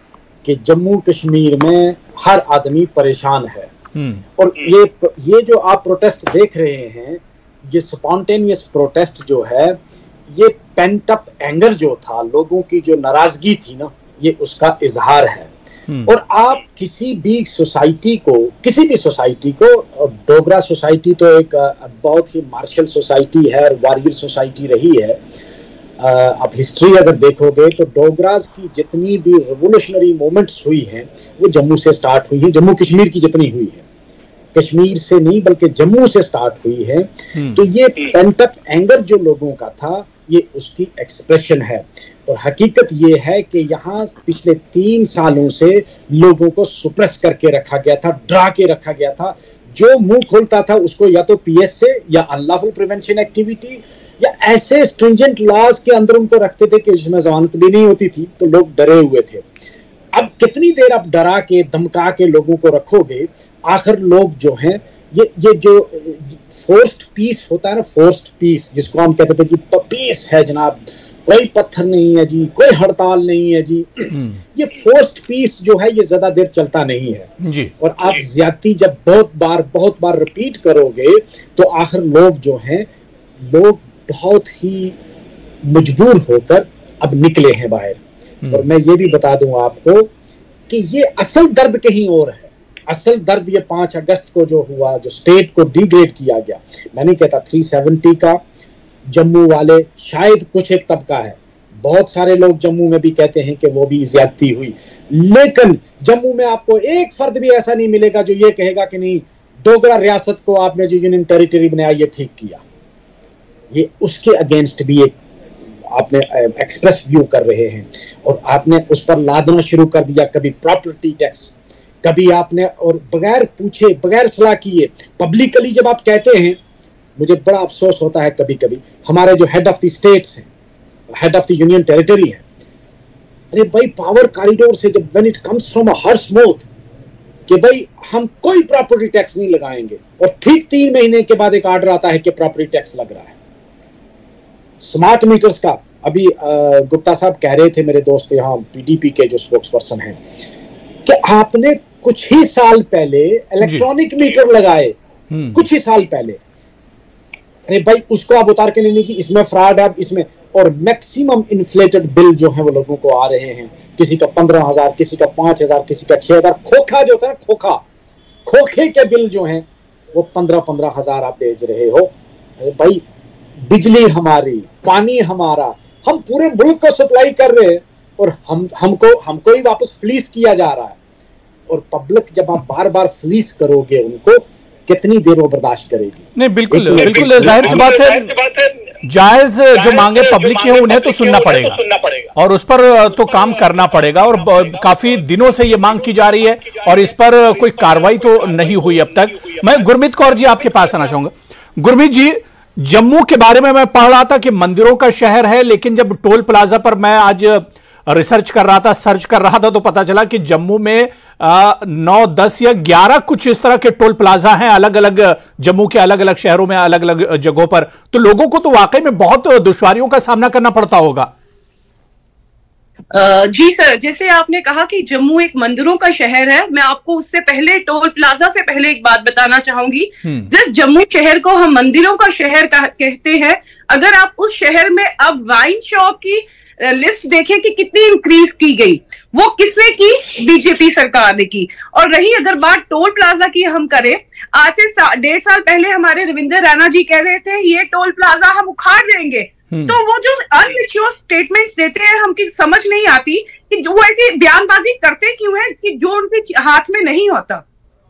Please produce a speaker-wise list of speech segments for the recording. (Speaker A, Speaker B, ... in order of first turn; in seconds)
Speaker A: 0.4-3.7, 4.4-15.5, 16.1-25.2, 26.0-33.8, 34.5-59.4, 60.1-82.9, 83.4-85.0, 85.6-90.1, 90.7-98.4, 99.1-112.6, 113.7-115.2, 115.9-126.6, 127.2-130.5, 131.2-132.4, 133.5-136.7, 137.5-143.3, 144.8-150.2, 151.1-154.9, 155.5-156.4, 157.7-167.8, 168.5-173.0, 173.6-181.0, 181.7-187.9
Speaker B: 4.0-4.2, 74.1-74.4, 77.4-77.7, 153.6-153.9, 155.3-155.6, 186.4-221.3, 230.2-230.5
Speaker C: 223.1-257.6